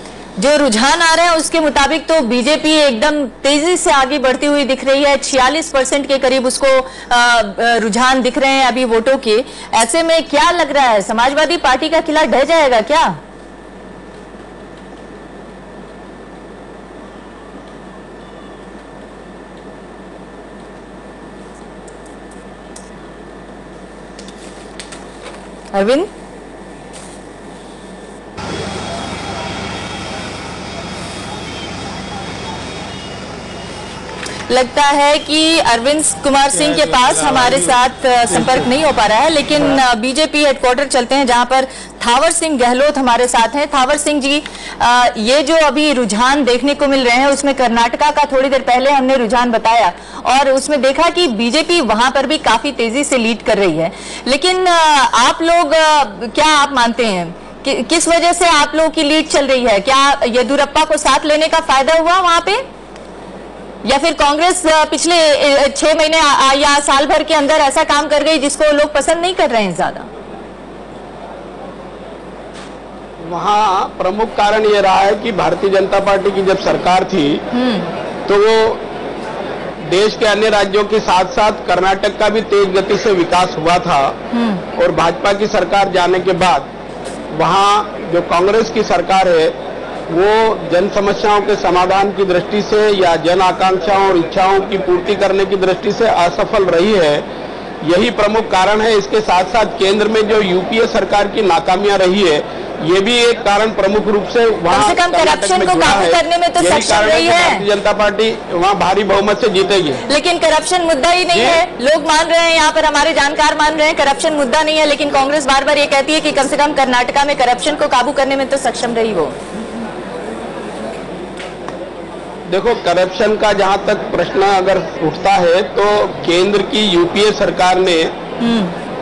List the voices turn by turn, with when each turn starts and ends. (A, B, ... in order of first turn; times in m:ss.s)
0:00.4-0:13.2 A
0:25.7-0:26.1 A
0:34.5-1:02.6 A
0:36.5-0:37.8 B
0:38.3-0:38.7 B
1:03.8-1:10.1 A
1:13.2-1:17.4 B
1:17.5-1:17.9 A
1:18.3-1:18.8 B
1:19.9-1:24.2 B
1:24.3-1:24.6 A
1:24.8-1:26.7 B
1:27.3-1:29.6 B
1:30.1-1:37.3 B
1:37.8-1:50.0 B
1:44.7-1:47.6 A
1:50.1-1:59.4 A
1:51.3-1:51.6 B
2:02.5-2:08.2 B
2:08.4-2:08.7 A